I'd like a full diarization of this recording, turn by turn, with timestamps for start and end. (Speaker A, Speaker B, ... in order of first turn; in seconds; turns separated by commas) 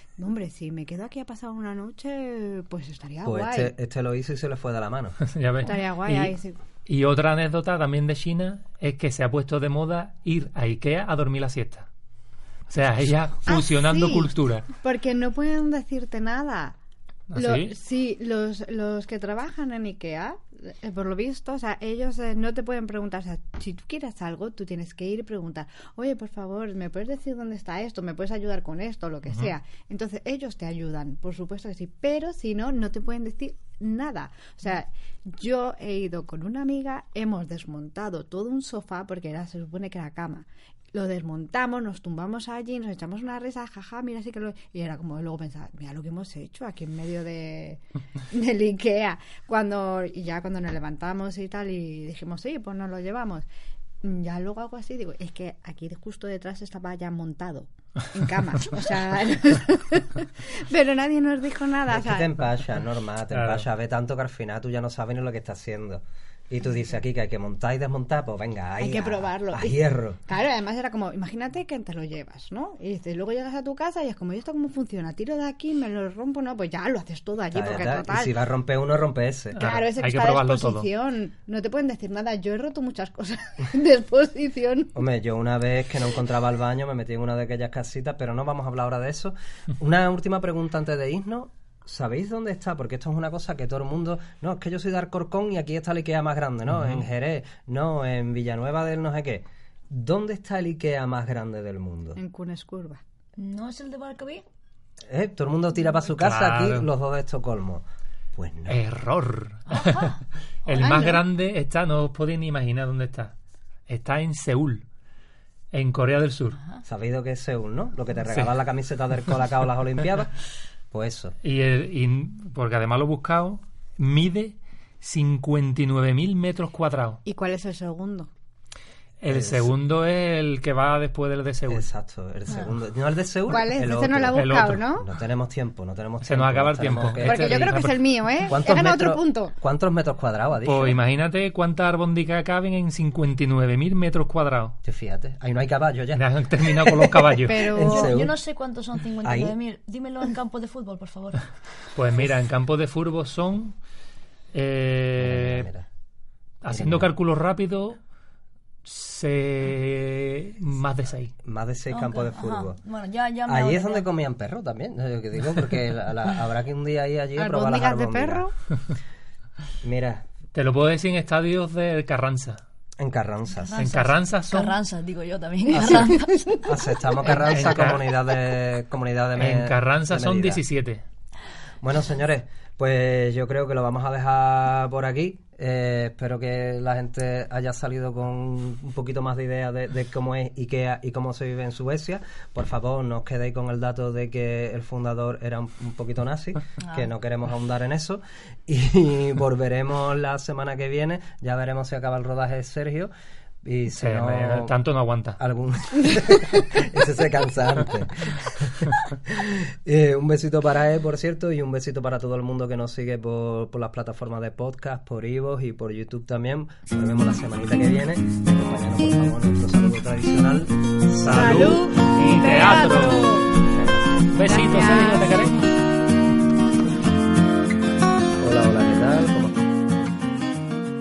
Speaker A: 0.2-3.7, Speaker B: 3.2-5.2, Speaker C: 5.2-11.9, Speaker A: 5.6-6.6, Speaker C: 12.7-14.7, Speaker A: 13.5-16.8, Speaker C: 17.3-17.8, Speaker A: 17.4-53.5, Speaker A: 54.0-62.3, Speaker B: 61.9-70.2, Speaker C: 63.3-63.6, Speaker A: 68.8-78.3, Speaker B: 77.5-79.6, Speaker C: 79.5-80.9, Speaker A: 79.6-84.9, Speaker B: 85.0-102.2, Speaker A: 102.2-103.0, Speaker D: 103.4-104.4, Speaker B: 105.1-108.8, Speaker C: 106.1-106.9, Speaker C: 108.7-110.2, Speaker D: 109.7-111.2, Speaker C: 110.7-113.3, Speaker A: 110.8-111.2, Speaker C: 113.9-114.8, Speaker C: 115.7-116.6, Speaker B: 116.8-120.3, Speaker B: 120.9-121.3, Speaker C: 121.4-127.2, Speaker A: 127.2-128.3, Speaker C: 129.2-131.9, Speaker B: 129.3-129.7, Speaker B: 131.7-137.8, Speaker A: 133.5-135.1, Speaker C: 134.3-134.8, Speaker C: 136.2-138.2, Speaker A: 137.2-139.5, Speaker B: 138.5-141.0, Speaker C: 140.6-144.8, Speaker B: 144.8-148.3, Speaker C: 146.2-147.7, Speaker A: 147.5-148.2, Speaker D: 147.8-151.4, Speaker B: 149.2-149.6, Speaker C: 152.0-153.8, Speaker C: 154.5-155.7, Speaker B: 155.2-155.9, Speaker C: 156.6-158.0, Speaker B: 156.7-157.1, Speaker C: 158.8-161.3, Speaker B: 161.4-162.8, Speaker D: 161.9-164.1, Speaker B: 163.5-168.5, Speaker A: 167.4-168.5, Speaker B: 169.8-170.3, Speaker C: 170.5-172.6, Speaker B: 173.0-173.8, Speaker D: 173.7-176.6, Speaker C: 173.8-174.8, Speaker B: 175.7-180.6, Speaker C: 177.3-178.0, Speaker C: 179.4-181.0, Speaker B: 181.8-203.1, Speaker D: 196.8-197.1, Speaker B: 203.6-204.7, Speaker C: 203.9-205.4, Speaker B: 205.4-220.7, Speaker C: 221.2-223.4, Speaker A: 221.2-223.5, Speaker B: 223.7-224.1, Speaker C: 224.3-225.6, Speaker A: 224.5-225.5, Speaker B: 228.4-229.5